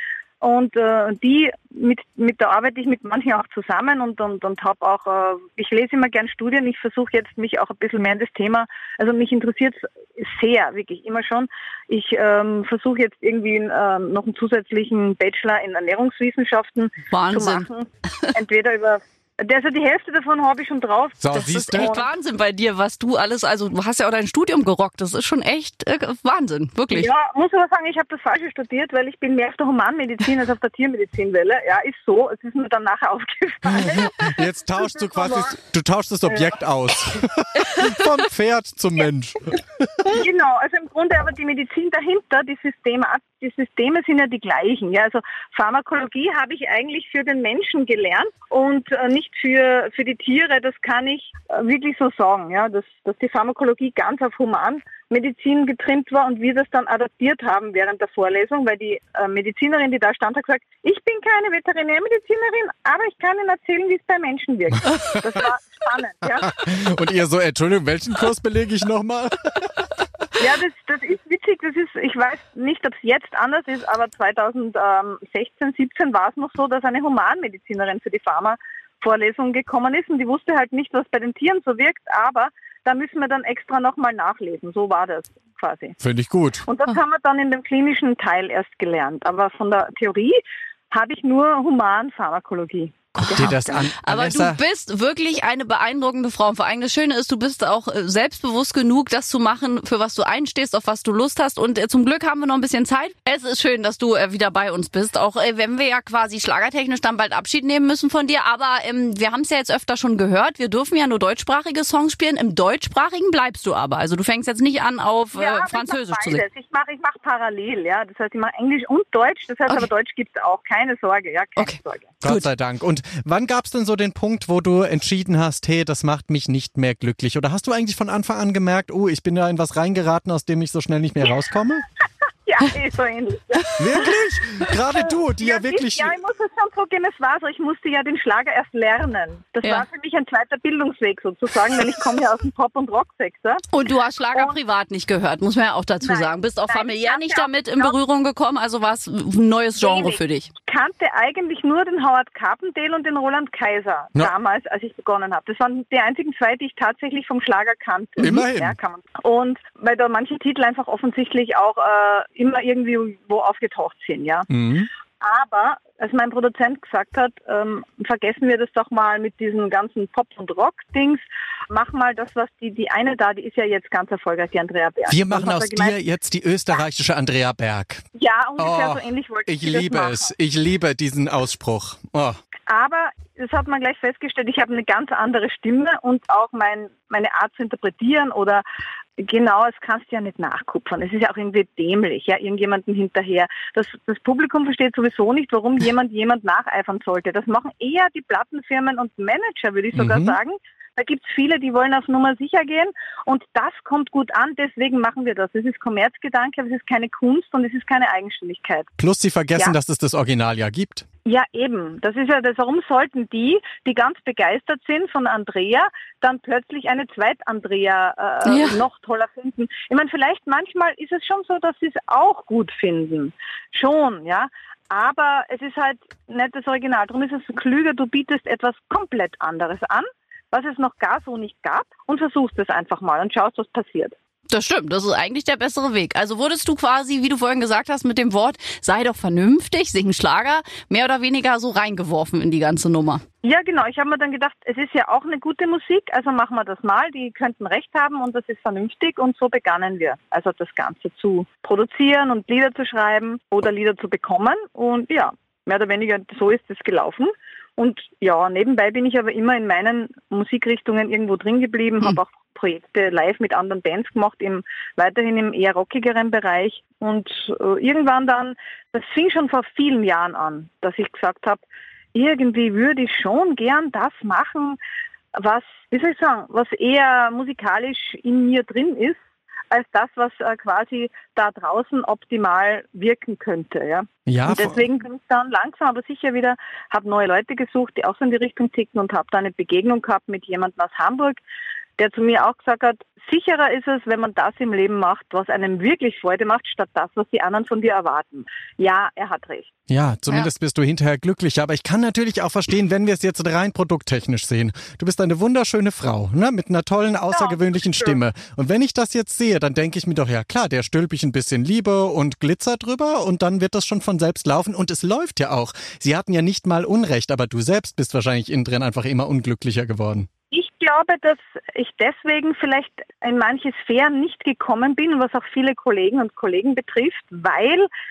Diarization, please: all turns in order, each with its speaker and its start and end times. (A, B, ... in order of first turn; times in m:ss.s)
0:00.4-0:22.1 A
0:17.1-0:17.6 B
0:21.2-0:22.0 C
0:21.4-0:27.1 B
0:26.9-0:35.6 A
0:33.7-0:40.2 C
0:36.3-0:36.6 A
0:40.1-1:06.6 A
1:05.0-1:05.4 C
1:06.4-1:09.9 C
1:10.4-1:26.0 A
1:26.0-1:26.6 C
1:26.6-1:30.4 A
1:30.9-1:33.7 A
1:33.2-1:34.6 C
1:33.2-1:56.4 B
1:55.4-2:02.1 A
2:01.6-2:02.4 B
2:02.2-2:11.8 C
2:12.4-2:14.1 A
2:13.8-2:16.1 C
2:14.9-2:23.6 A
2:23.7-2:30.5 B
2:26.0-2:27.9 A
2:29.8-2:44.5 A
2:38.2-2:38.7 C
2:44.5-2:44.9 C
2:45.2-2:55.9 A
2:55.1-2:58.0 C
2:58.1-3:00.3 A
2:58.6-3:02.4 C
3:02.7-3:08.6 A
3:09.2-3:28.9 A
3:19.9-3:20.4 C
3:29.0-3:31.0 C
3:31.2-3:54.1 A
3:38.4-3:38.8 B
3:54.5-4:03.2 B
4:03.4-4:31.6 A
4:32.1-4:34.8 A
4:35.4-4:39.2 A
4:39.7-4:51.4 A
4:44.3-4:44.8 C
4:52.0-4:59.7 A
4:59.9-5:20.3 C
5:07.3-5:08.2 A
5:20.5-5:27.9 A